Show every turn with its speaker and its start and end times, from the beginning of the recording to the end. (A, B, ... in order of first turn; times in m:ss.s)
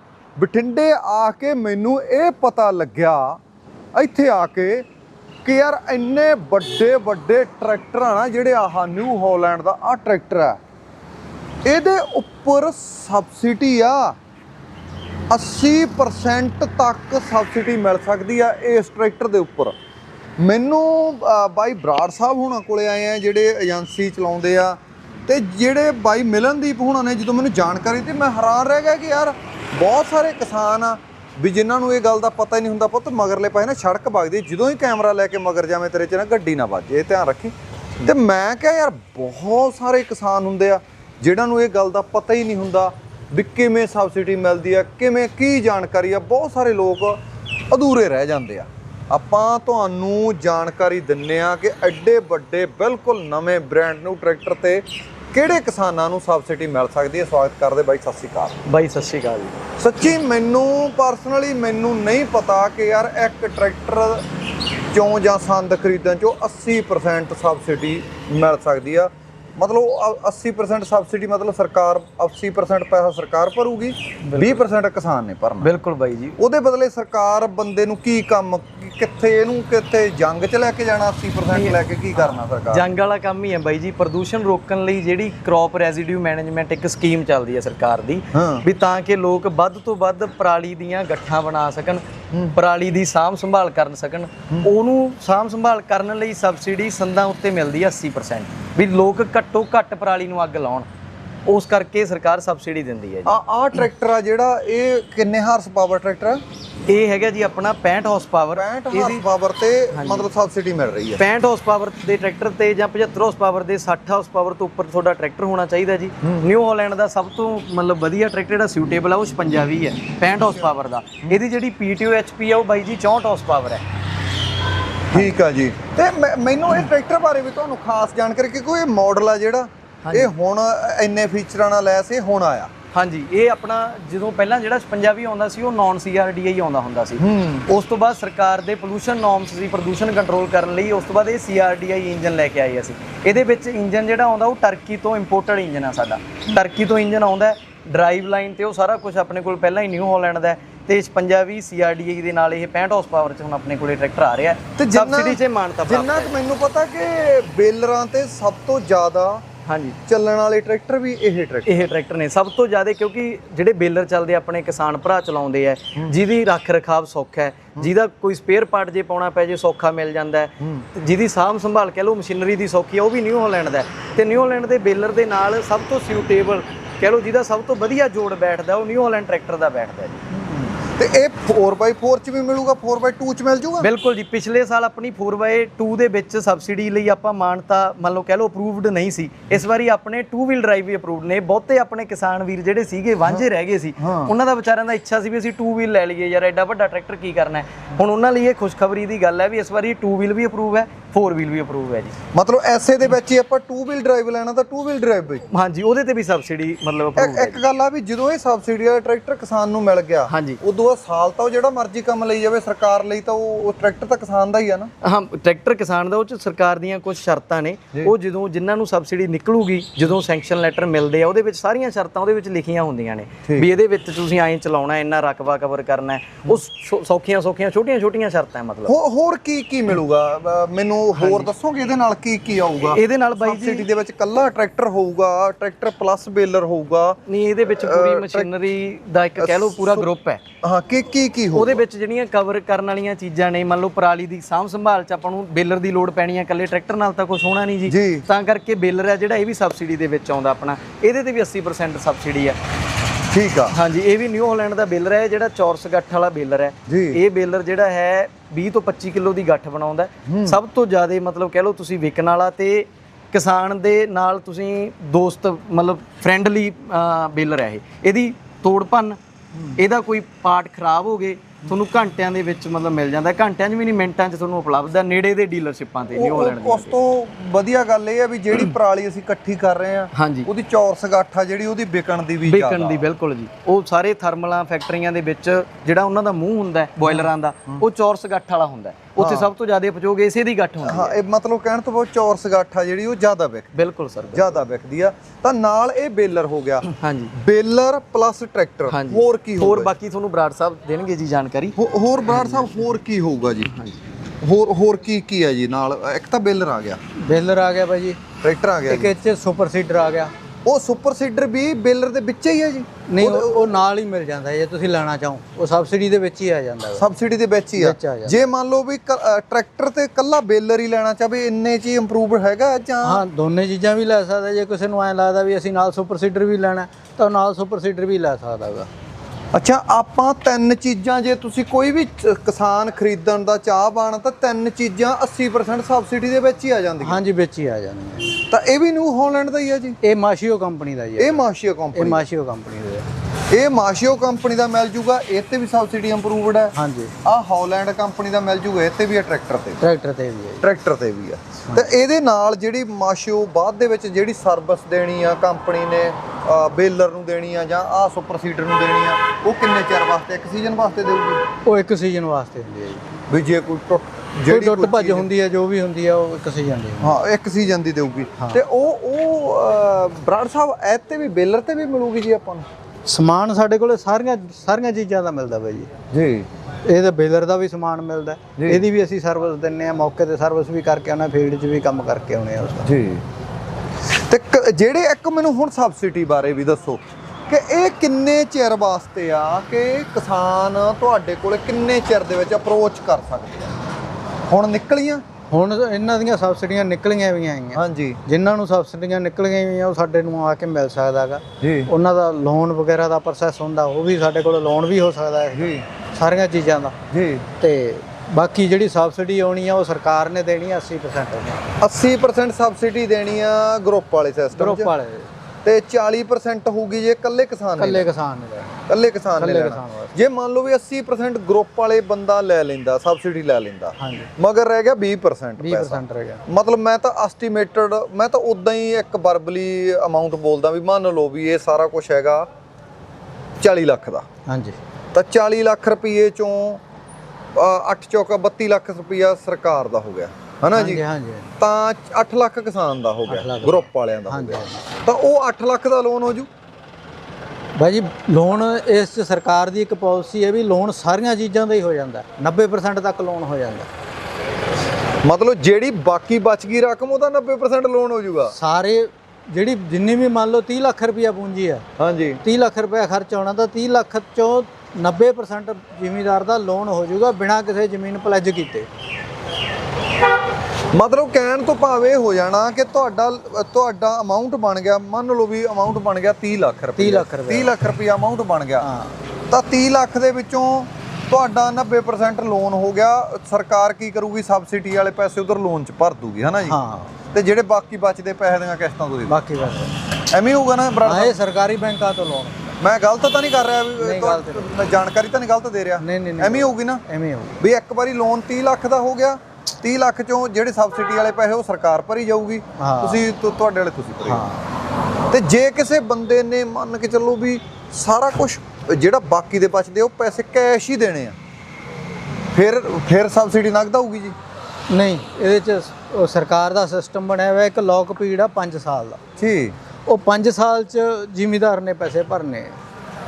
0:00.4-0:03.4 A
0:03.9-0:04.9 A
0:05.4-0:10.6 A
0:11.6-0:14.2 A
0:15.3-0:19.8 A
0:20.4-0:58.6 A
0:58.7-0:59.6 B
0:59.8-1:04.2 A
1:04.9-1:15.7 A
1:14.2-1:14.7 B
1:15.6-1:16.4 B
1:16.4-1:22.9 A
1:21.5-1:40.9 B
1:28.3-1:28.6 A
1:41.5-1:43.3 B
1:43.3-1:46.4 A
1:46.9-1:49.2 B
1:48.6-1:51.2 A
1:49.9-1:50.3 B
1:51.2-2:03.8 B
2:05.1-2:12.7 A
2:10.0-2:10.3 B
2:12.9-2:36.3 B
2:17.2-2:17.7 A
2:34.8-2:39.4 A
2:39.7-2:40.0 B
2:40.1-2:41.9 A
2:41.7-3:00.2 B
3:00.3-3:03.9 A
3:03.8-3:22.1 B
3:14.0-3:14.3 A
3:22.3-3:25.4 A
3:25.5-3:27.6 B
3:27.2-3:34.9 A
3:30.3-3:30.6 B
3:35.0-3:48.9 B
3:48.9-3:58.5 A
3:51.1-3:51.5 B
3:52.9-3:53.9 B
3:57.3-4:00.4 B
3:59.4-4:00.1 A
4:00.6-4:01.8 A
4:01.5-4:12.6 B
4:07.9-4:08.3 A
4:13.3-4:13.8 A
4:13.7-4:29.2 B
4:16.9-4:17.2 A
4:20.3-4:20.6 A
4:29.5-4:29.8 A
4:29.8-4:37.0 B
4:36.1-4:43.1 A
4:40.1-4:40.5 B
4:42.4-4:51.2 B
4:47.0-4:47.8 A
4:49.2-4:49.5 A
4:50.8-4:53.7 A
4:53.8-4:54.6 B
4:54.3-4:59.9 A
4:56.8-4:57.3 B
4:58.9-5:01.8 B
5:01.8-5:03.7 A
5:02.3-5:03.0 B
5:03.7-5:04.0 B
5:04.4-5:07.0 A
5:07.2-5:08.2 C
5:08.4-5:09.1 A
5:08.9-5:10.3 C
5:10.7-5:13.8 A
5:13.1-5:17.1 C
5:17.0-5:23.2 A
5:17.8-5:18.4 C
5:23.0-5:28.9 C
5:29.5-5:37.2 A
5:37.0-5:38.4 C
5:38.5-5:40.0 A
5:40.0-5:43.1 C
5:41.2-5:42.2 A
5:43.5-5:46.7 A
5:46.8-5:47.1 C
5:47.2-5:49.8 A
5:49.8-5:50.6 C
5:50.6-6:01.4 A
6:01.6-6:03.0 C
6:03.3-6:05.3 A
6:04.5-6:07.2 C
6:07.0-6:12.7 A
6:13.1-6:15.9 C
6:16.1-6:16.5 A
6:16.9-6:22.9 C
6:18.6-6:18.9 A
6:22.8-6:23.2 A
6:24.1-6:33.7 A
6:34.5-6:35.2 A
6:35.5-6:47.0 C
6:37.7-6:38.2 A
6:41.6-6:41.9 A
6:45.5-6:45.9 A
6:47.1-6:47.5 A
6:47.6-6:51.6 C
6:51.8-6:54.9 A
6:54.5-6:55.3 C
6:55.6-6:58.1 A
6:57.8-6:58.8 C
6:58.9-7:12.5 A
6:59.4-7:00.1 C
7:04.0-7:04.3 C
7:05.6-7:06.4 C
7:13.6-7:14.2 A
7:14.5-7:14.8 C
7:15.1-7:16.8 A
7:17.6-7:21.0 A
7:20.7-7:21.5 C
7:21.6-7:26.5 A
7:23.3-7:24.8 C
7:27.8-7:33.9 C
7:35.2-7:38.5 A
7:38.5-7:41.8 C
7:42.0-7:42.4 A
7:42.4-7:48.9 C
7:50.9-7:58.9 A
7:57.0-7:57.8 C
7:58.8-7:59.2 C
7:59.5-8:06.8 A
8:06.7-8:07.1 C
8:07.3-8:09.4 A
8:09.3-8:09.9 C
8:10.3-8:11.4 A
8:11.0-8:12.8 C
8:12.8-8:17.0 A
8:14.0-8:14.8 C
8:16.0-8:17.6 C
8:17.6-8:24.4 A
8:22.8-8:23.2 C
8:24.2-8:24.6 C
8:25.3-8:31.4 A
8:32.5-8:34.4 A
8:34.9-8:39.2 C
8:39.4-8:39.8 A
8:40.1-8:42.8 C